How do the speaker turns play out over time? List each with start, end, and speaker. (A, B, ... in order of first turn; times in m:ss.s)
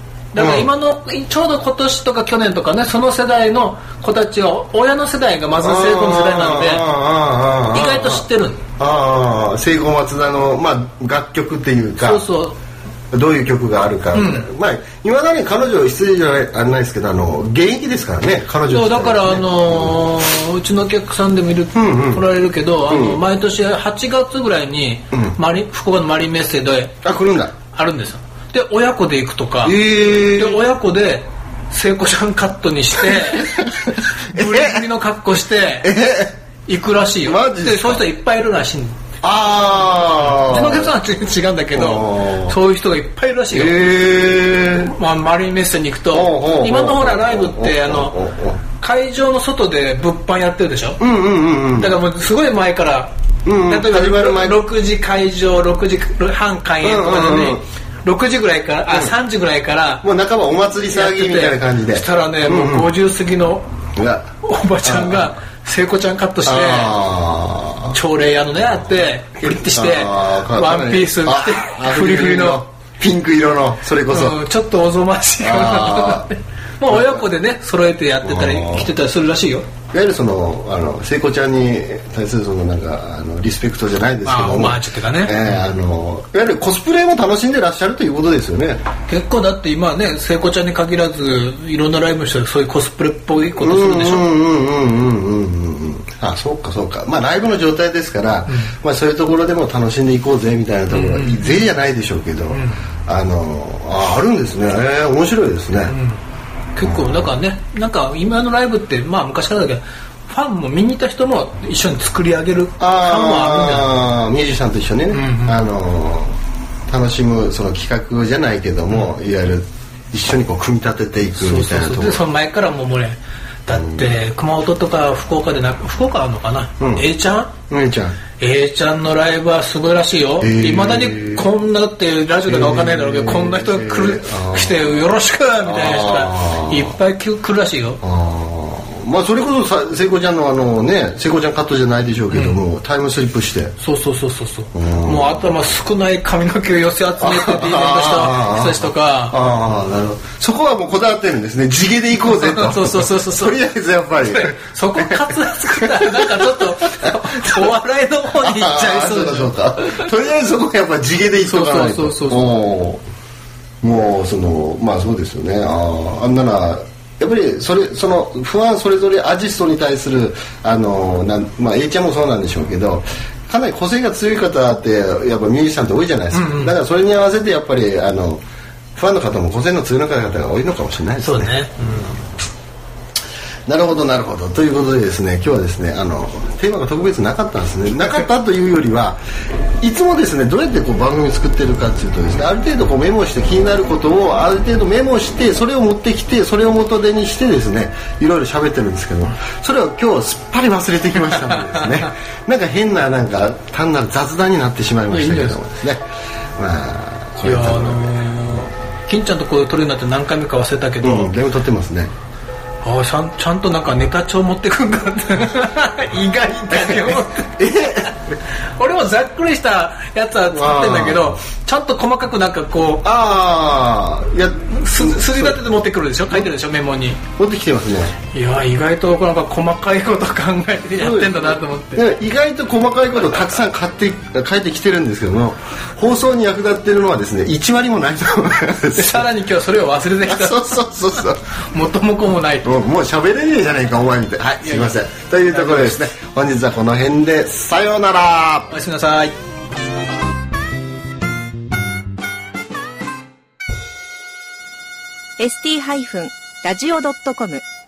0:00.3-0:06.9 A
0:00.3-0:00.7 B
0:05.6-0:08.2 B
0:07.7-0:08.6 A
0:08.8-0:12.2 B
0:12.0-0:12.6 A
0:13.1-0:20.1 B
0:14.1-0:14.5 A
0:18.7-0:27.0 A
0:21.7-0:22.3 B
0:22.8-0:23.2 B
0:25.1-0:25.4 B
0:27.0-0:27.5 B
0:27.7-0:35.9 A
0:29.6-0:30.7 B
0:33.0-0:34.8 B
0:35.8-0:36.3 B
0:36.6-0:39.0 A
0:37.2-0:38.1 B
0:39.2-0:41.0 B
0:40.0-0:44.0 A
0:41.7-0:42.6 B
0:43.5-0:44.9 B
0:44.6-0:51.0 A
0:46.1-0:48.6 B
0:51.0-0:52.0 B
0:51.7-0:53.1 A
0:53.4-0:54.6 B
0:53.6-1:00.1 A
0:56.8-0:57.6 B
0:58.9-0:59.1 B
1:00.0-1:02.9 B
1:00.9-1:03.7 A
1:04.0-1:04.3 B
1:04.4-1:06.9 A
1:04.8-1:05.3 B
1:06.4-1:08.0 B
1:07.9-1:12.6 A
1:08.6-1:14.4 B
1:14.1-1:19.7 A
1:15.4-1:16.3 B
1:16.8-1:17.2 B
1:18.2-1:18.9 B
1:19.9-1:28.8 B
1:24.2-1:25.7 A
1:29.1-1:34.3 A
1:33.6-1:46.0 B
1:38.5-1:38.7 A
1:40.9-1:41.7 A
1:42.5-1:42.8 A
1:45.9-1:46.2 A
1:46.7-1:53.9 A
1:46.8-1:47.3 B
1:52.8-1:56.4 B
1:55.1-1:55.6 A
1:56.9-2:02.2 B
2:01.4-2:07.5 A
2:03.7-2:04.1 B
2:06.8-2:07.1 B
2:07.7-2:08.2 B
2:08.4-2:18.0 A
2:10.4-2:11.5 B
2:12.4-2:14.9 B
2:15.6-2:17.0 B
2:18.0-2:23.7 B
2:22.3-2:22.6 A
2:23.8-2:29.4 A
2:24.7-2:25.5 B
2:27.2-2:37.7 B
2:32.2-2:33.6 A
2:34.2-2:40.1 A
2:38.4-2:43.0 B
2:41.4-2:42.4 A
2:43.8-2:58.4 B
2:56.3-2:56.8 A
2:59.0-3:02.1 B
3:01.2-3:02.1 A
3:03.7-3:09.2 B
3:09.8-3:26.0 B
3:21.4-3:22.0 A
3:25.1-3:25.6 A
3:26.6-3:28.6 B
3:27.4-3:31.3 A
3:31.0-3:32.1 B
3:32.8-3:38.2 A
3:36.7-3:38.1 B
3:38.8-3:43.1 A
3:40.5-3:41.4 B
3:43.0-3:45.6 B
3:44.8-3:47.2 A
3:47.4-3:48.2 B
3:48.3-3:52.0 A
3:51.0-3:59.3 B
3:58.9-4:02.7 A
4:00.2-4:01.4 B
4:02.6-4:08.7 B
4:04.6-4:06.0 A
4:08.7-4:09.3 A
4:15.4-4:17.6 C